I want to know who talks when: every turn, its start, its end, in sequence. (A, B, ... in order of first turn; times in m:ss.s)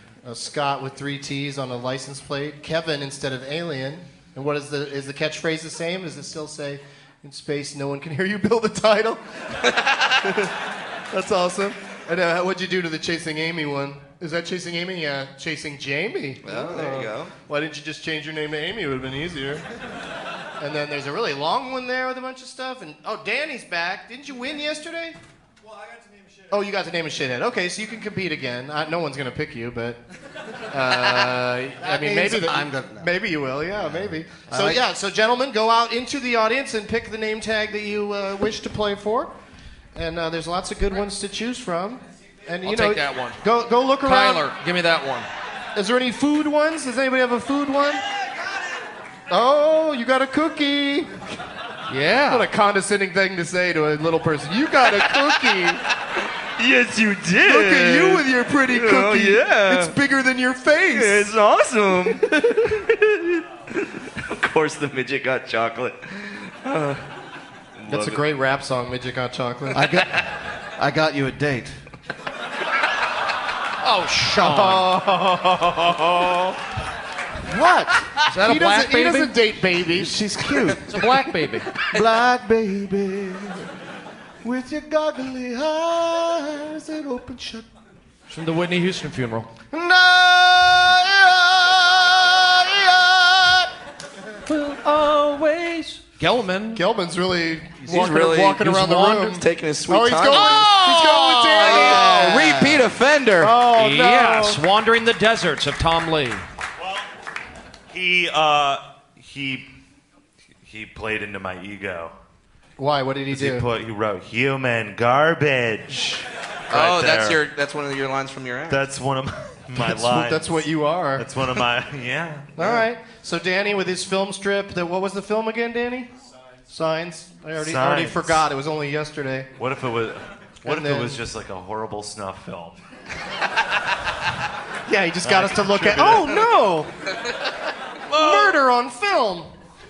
0:00.2-0:10.5 A
0:09.8-0:10.1 B
0:11.1-0:19.6 A
0:16.4-0:17.3 B
0:20.6-0:25.2 A
0:26.5-0:30.0 A
0:30.7-0:39.3 A
0:31.8-0:33.1 C
0:33.7-0:34.8 C
0:39.9-0:44.5 A
0:42.6-0:43.4 D
0:44.0-0:45.3 D
0:45.7-0:48.0 A
0:49.3-0:51.3 A
0:51.9-0:52.5 D
0:52.3-0:55.8 A
0:55.0-0:55.2 B
0:56.4-1:00.0 B
0:57.4-1:01.3 A
1:00.9-1:07.0 B
1:07.8-1:08.2 B
1:07.9-1:09.8 A
1:09.7-1:11.8 C
1:13.8-1:14.9 D
1:14.4-1:15.8 A
1:15.8-1:16.6 B
1:17.4-1:18.1 C
1:18.2-1:19.4 D
1:18.4-1:20.2 A
1:19.9-1:20.9 C
1:20.9-1:21.7 D
1:21.9-1:23.7 C
1:24.4-1:27.7 C
1:28.3-1:29.5 D
1:29.7-1:33.7 C
1:34.4-1:36.8 D
1:36.7-1:42.1 A
1:37.8-1:40.8 B
1:38.9-1:39.2 D
1:40.3-1:42.9 C
1:41.5-1:43.6 B
1:43.4-1:44.6 A
1:43.6-1:46.4 D
1:46.8-1:47.1 E
1:47.9-1:49.6 E
1:50.6-1:52.1 E
1:52.8-1:53.7 A
1:53.3-1:57.4 E
1:56.7-1:58.8 B
1:58.7-2:02.5 E
1:59.7-2:01.3 A
2:02.6-2:06.1 A
2:06.7-2:09.5 A
2:07.6-2:08.4 E
2:09.6-2:12.8 E
2:10.6-2:11.2 A
2:14.9-2:16.9 A
2:15.2-2:16.5 E
2:18.1-2:18.6 D
2:18.1-2:19.5 A